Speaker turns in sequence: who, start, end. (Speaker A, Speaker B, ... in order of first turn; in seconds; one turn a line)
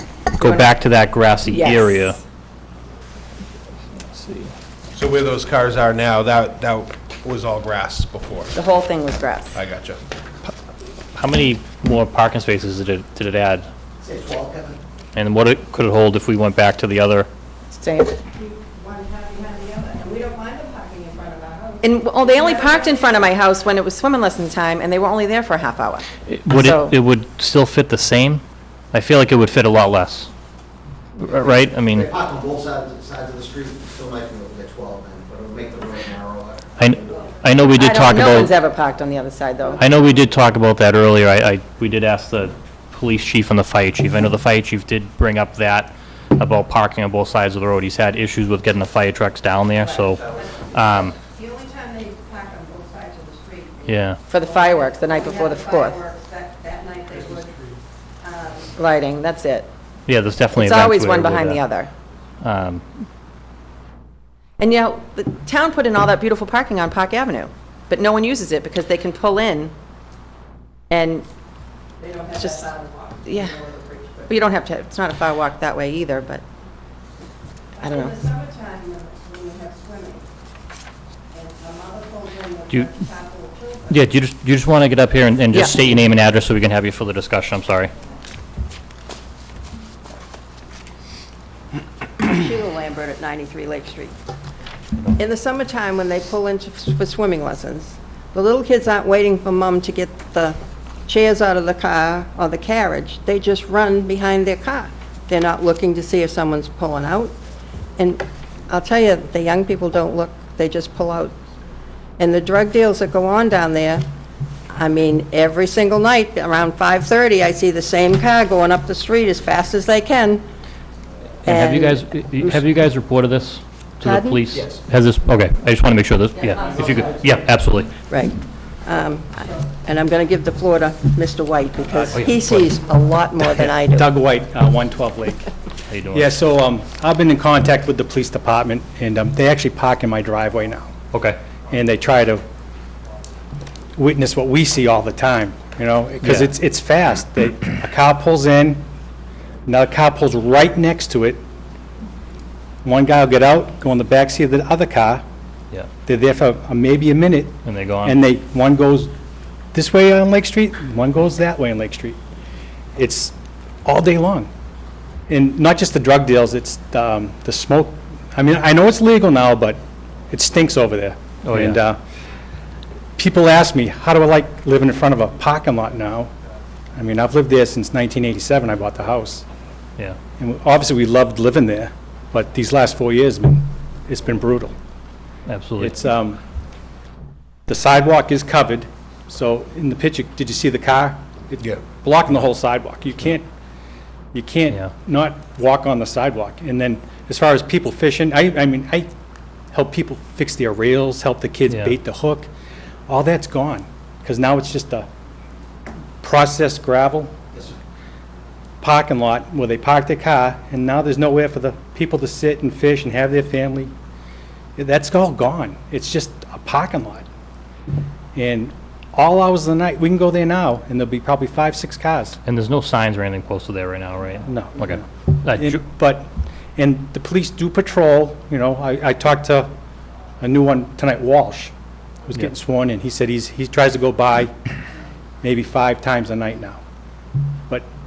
Speaker A: 0.3-2.2
Speaker B: 0.4-0.7
Speaker B: 1.5-2.2
Speaker A: 4.1-4.5
Speaker C: 4.9-8.5
Speaker B: 8.5-9.6
Speaker C: 9.5-10.0
Speaker A: 11.1-13.7
Speaker D: 14.0-14.8
Speaker A: 15.1-17.3
Speaker B: 17.7-18.2
Speaker E: 18.3-23.4
Speaker B: 21.8-26.9
Speaker A: 26.3-30.3
Speaker A: 31.2-32.1
Speaker D: 31.2-37.3
Speaker A: 36.8-38.5
Speaker B: 37.8-40.0
Speaker A: 39.8-51.2
Speaker E: 49.8-57.6
Speaker A: 53.9-54.2
Speaker B: 54.3-56.0
Speaker E: 58.2-58.8
Speaker B: 58.7-59.7
Speaker A: 60.1-61.8
Speaker B: 60.5-61.9
Speaker A: 62.4-62.8
Speaker B: 64.6-69.7
Speaker B: 70.9-71.2
Speaker E: 72.0-74.4
Speaker B: 72.3-72.7
Speaker B: 73.2-73.6
Speaker B: 74.3-76.4
Speaker E: 77.8-80.2
Speaker B: 77.8-78.2
Speaker E: 81.3-84.0
Speaker A: 82.7-83.0
Speaker A: 83.9-87.9
Speaker B: 85.5-85.8
Speaker E: 92.2-94.1
Speaker E: 95.2-107.3
Speaker E: 108.0-111.3
Speaker E: 112.2-114.0
Speaker E: 114.7-120.4
Speaker A: 121.4-127.9
Speaker E: 121.5-122.5
Speaker E: 124.0-124.5
Speaker E: 128.1-134.1
Speaker F: 131.9-132.2
Speaker A: 132.1-132.8
Speaker F: 133.5-135.5
Speaker A: 135.9-136.3
Speaker F: 136.1-140.9
Speaker A: 141.1-141.4
Speaker F: 141.7-142.4
Speaker F: 143.9-148.8
Speaker A: 146.2-146.5
Speaker F: 149.7-151.4
Speaker F: 152.8-155.2
Speaker F: 156.1-159.1
Speaker A: 157.6-158.2
Speaker F: 159.7-162.2
Speaker F: 162.9-163.3
Speaker F: 163.8-164.5
Speaker F: 165.3-172.0
Speaker A: 171.4-171.8
Speaker F: 173.2-176.3
Speaker F: 176.9-179.4
Speaker F: 180.4-184.7
Speaker A: 185.5-186.0
Speaker F: 185.8-186.4
Speaker F: 187.7-193.5
Speaker F: 194.3-199.1
Speaker F: 199.7-202.5
Speaker A: 201.7-201.9
Speaker F: 203.1-205.1
Speaker F: 206.2-207.3
Speaker F: 208.8-213.9
Speaker F: 214.8-217.2
Speaker F: 218.3-222.4
Speaker A: 222.4-225.8
Speaker F: 224.4-229.7
Speaker F: 230.4-231.7
Speaker F: 232.3-234.5
Speaker F: 235.4-236.8